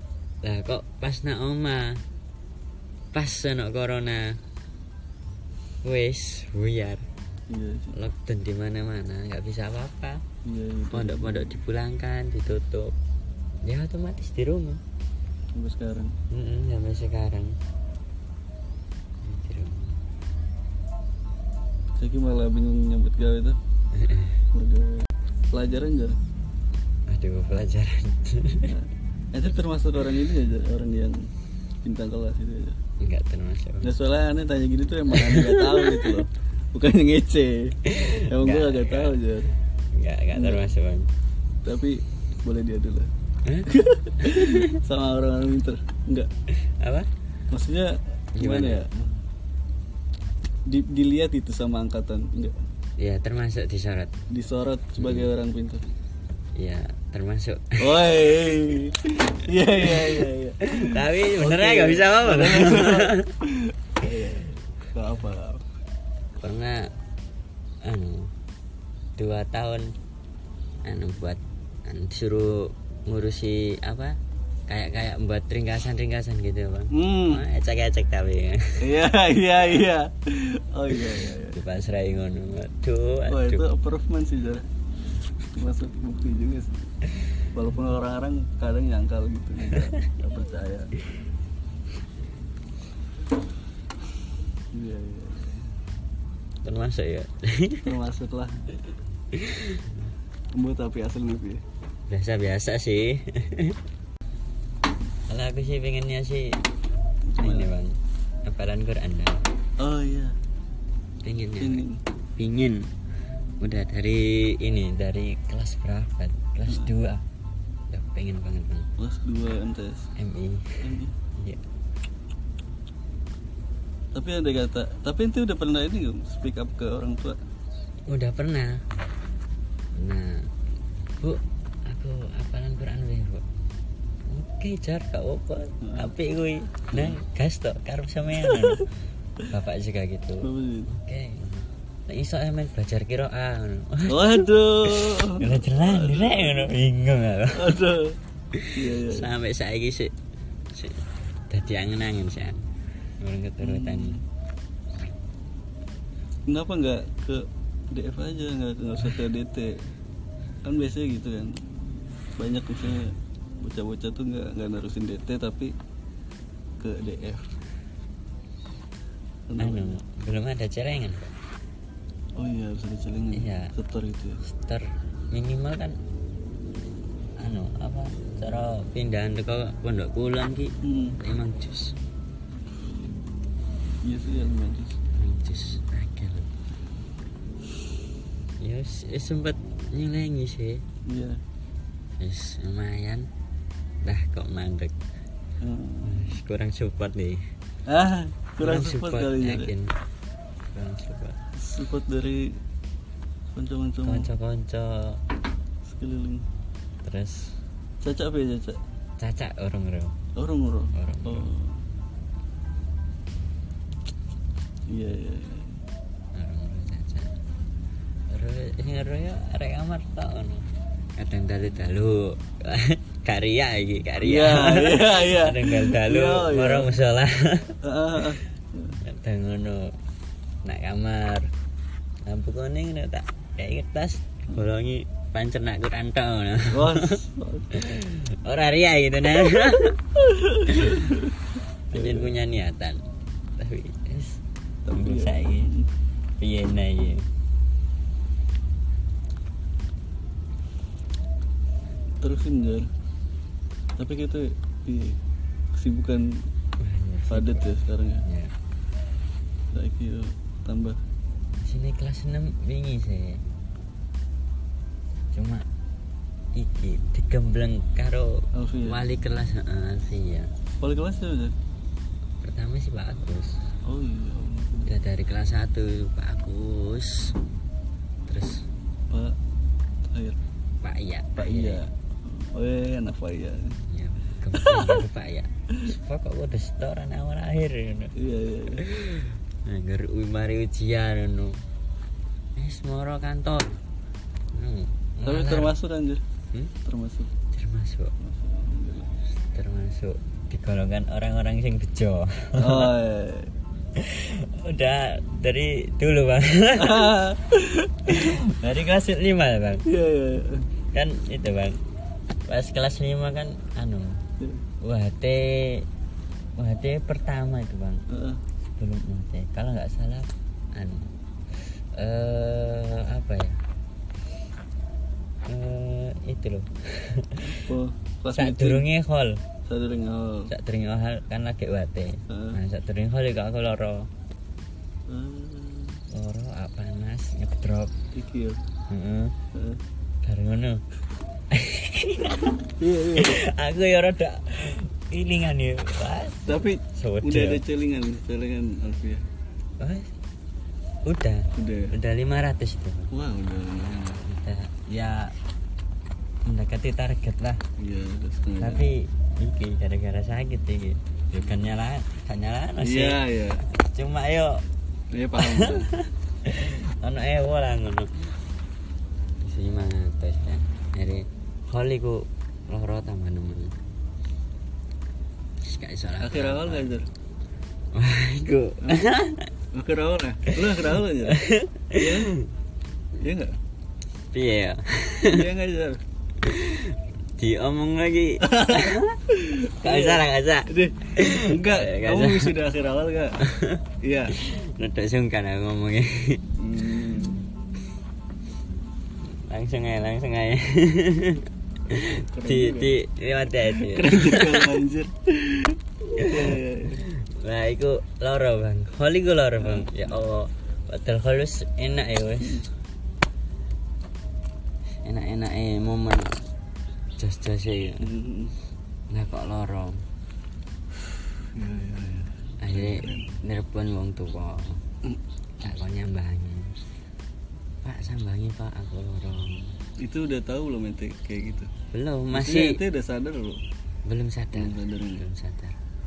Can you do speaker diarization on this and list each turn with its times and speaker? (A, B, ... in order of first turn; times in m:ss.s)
0:00.4-0:02.0 A
0:03.1-0:04.4 A
0:05.8-0:07.0 A
0:07.5-0:07.9 B
0:07.9-0:10.2 A
0:10.4-0:11.5 B
0:10.9-0:12.9 A
0:13.6-0:14.8 A
0:15.5-0:16.2 B
0:16.3-0:17.5 A
0:19.2-0:20.0 A
0:22.0-0:23.6 B
0:23.9-0:24.4 A
0:24.5-0:26.2 B
0:27.1-0:28.7 A
0:28.6-0:31.3 B
0:31.8-0:32.8 B
0:33.0-0:33.9 A
0:33.8-0:39.5 B
0:35.1-0:36.2 A
0:37.8-0:39.2 A
0:39.9-0:41.1 A
0:40.3-0:40.7 B
0:41.6-0:43.1 B
0:43.4-0:44.8 A
0:43.7-0:46.3 B
0:46.7-0:47.1 A
0:47.5-0:49.1 B
0:48.4-0:48.8 A
0:50.7-0:52.6 B
0:53.0-0:54.1 A
0:54.3-0:55.9 B
0:55.0-0:55.3 A
0:56.6-0:58.1 A
0:57.8-1:05.6 B
0:59.8-1:03.3 A
1:06.4-1:06.9 A
1:07.8-1:08.3 A
1:09.2-1:09.9 A
1:10.8-1:18.8 A
1:16.9-1:17.4 B
1:18.8-1:21.6 B
1:21.1-1:23.7 A
1:23.3-1:24.7 B
1:25.5-1:26.9 B
1:27.5-1:30.9 B
1:34.7-1:35.7 B
1:36.6-1:37.9 A
1:37.8-1:38.9 B
1:39.3-1:39.9 A
1:40.5-1:41.6 B
1:42.1-1:43.8 A
1:45.3-1:46.6 A
1:47.3-1:47.7 B
1:47.4-1:49.4 A
1:49.8-1:50.4 B
1:51.2-1:51.8 A
1:51.6-1:52.0 B
1:52.4-1:52.9 A
1:53.6-1:57.2 A
1:56.7-1:56.9 B
1:57.9-1:58.9 A
1:59.0-2:00.1 B
2:00.2-2:01.6 A
2:00.8-2:01.2 B
2:04.1-2:07.4 B
2:08.1-2:08.8 A
2:09.9-2:10.5 A
2:11.2-2:13.4 A
2:14.3-2:18.8 A
2:15.8-2:16.1 B
2:16.9-2:17.2 B
2:18.4-2:18.8 B
2:19.4-2:27.8 A
2:20.4-2:20.9 B
2:24.1-2:26.7 B
2:27.5-2:28.2 B
2:28.5-2:30.1 A
2:28.7-2:29.3 B
2:30.7-2:32.6 A
2:33.2-2:34.2 A
2:33.6-2:34.2 B
2:36.5-2:39.9 B
2:40.6-2:41.6 B
2:42.4-2:45.7 B
2:46.8-2:47.5 B
2:49.5-2:50.0 B
2:49.6-2:51.3 A
2:52.4-2:54.4 B
2:53.3-2:53.7 A
2:54.4-2:56.0 A
2:57.4-3:02.0 A
3:00.8-3:01.2 B
3:04.0-3:05.0 B
3:05.1-3:06.5 A
3:08.6-3:10.8 A
3:11.0-3:11.4 B
3:12.2-3:13.3 A
3:14.0-3:15.0 A
3:15.6-3:16.3 B
3:16.0-3:17.4 A
3:17.9-3:19.7 B
3:18.6-3:20.0 A
3:20.7-3:21.4 A
3:21.5-3:22.6 B
3:23.5-3:24.3 B
3:24.0-3:25.2 A
3:25.8-3:26.5 B
3:27.0-3:27.6 A
3:28.0-3:28.8 B
3:29.2-3:30.2 A
3:30.3-3:31.8 B
3:30.9-3:31.5 A
3:34.9-3:35.8 B
3:36.3-3:37.3 A
3:38.3-3:48.3 A
3:44.2-3:47.0 B
3:47.8-3:49.0 B
3:49.0-3:49.9 A
3:50.6-3:51.5 A
3:52.2-3:57.2 A
3:56.7-3:57.7 B
3:57.7-4:00.1 A
4:00.2-4:01.4 B
4:00.6-4:01.2 A
4:01.9-4:03.0 A
4:01.9-4:02.3 B
4:03.6-4:04.4 A
4:04.8-4:05.9 B
4:04.9-4:05.7 A
4:06.4-4:07.3 A
4:12.2-4:12.9 B
4:14.0-4:15.2 B
4:15.7-4:16.4 B
4:16.8-4:18.5 A
4:17.3-4:18.2 B
4:19.7-4:21.0 B
4:21.6-4:23.4 A
4:25.3-4:25.6 A
4:26.5-4:30.5 A
4:28.5-4:29.0 B
4:30.8-4:31.5 B
4:32.4-4:33.6 A
4:33.8-4:34.9 B
4:34.8-4:37.3 A
4:38.3-4:38.6 A
4:39.1-4:39.4 B
4:40.0-4:40.4 B
4:40.8-4:41.8 A
4:41.4-4:43.8 B
4:43.8-4:48.1 A
4:44.5-4:45.0 B
4:48.2-4:48.9 B
4:48.7-4:51.6 A
4:52.6-4:53.8 A
4:54.5-4:55.7 A
4:55.2-4:56.2 B
4:56.8-4:57.3 B
4:57.5-4:58.1 A
4:58.2-4:59.1 B
4:59.4-5:02.9 A
5:02.6-5:03.5 B
5:03.9-5:07.2 A
5:06.8-5:08.2 B
5:08.0-5:09.8 A
5:09.8-5:10.6 B
5:10.9-5:11.8 A
5:12.4-5:14.2 A
5:14.8-5:15.8 A
5:16.6-5:18.0 A
5:18.1-5:18.4 B
5:18.6-5:21.1 A
5:21.6-5:23.6 A
5:25.4-5:27.7 A
5:27.4-5:28.9 B
5:28.3-5:29.4 A
5:29.6-5:30.5 B
5:30.5-5:34.1 A
5:32.3-5:32.6 B
5:35.1-5:36.0 B
5:36.1-5:37.9 A
5:38.1-5:38.6 B
5:38.9-5:39.3 A
5:39.5-5:39.8 B
5:40.2-5:40.8 A
5:41.5-5:47.6 A
5:42.8-5:43.4 B
5:46.4-5:49.2 B
5:49.8-5:50.1 A
5:51.0-5:53.1 A
5:51.5-5:51.9 B
5:53.1-5:54.2 B
5:54.2-5:55.3 A
5:56.4-5:57.6 A
5:57.8-5:58.9 B
5:58.6-6:04.6 A
6:02.8-6:03.6 B
6:05.1-6:05.9 B
6:05.4-6:08.1 A
6:09.4-6:13.7 A
6:15.6-6:16.9 A
6:16.2-6:17.1 B
6:17.9-6:19.5 A
6:18.8-6:19.0 B
6:19.7-6:21.4 B
6:20.5-6:22.5 A
6:22.0-6:22.4 B
6:23.1-6:23.6 B
6:24.3-6:25.4 A
6:25.3-6:26.0 B
6:26.4-6:29.2 A
6:28.4-6:33.4 B
6:29.8-6:32.6 A
6:33.4-6:36.4 A
6:34.0-6:34.4 B
6:36.6-6:37.4 B
6:39.2-6:44.8 A
6:41.9-6:43.0 B
6:43.6-6:47.0 B
6:46.2-6:52.7 A
6:49.6-6:50.2 B
6:52.4-6:52.7 B
6:55.0-6:56.4 A
6:57.2-6:58.1 A
6:58.0-6:58.5 B
6:59.1-7:00.0 A
7:01.4-7:03.3 B
7:02.6-7:04.8 A
7:05.0-7:05.7 B
7:05.6-7:06.8 A
7:07.8-7:09.8 A
7:10.0-7:11.7 B
7:11.9-7:12.8 A
7:12.3-7:13.6 B
7:14.0-7:15.8 A
7:14.5-7:15.2 B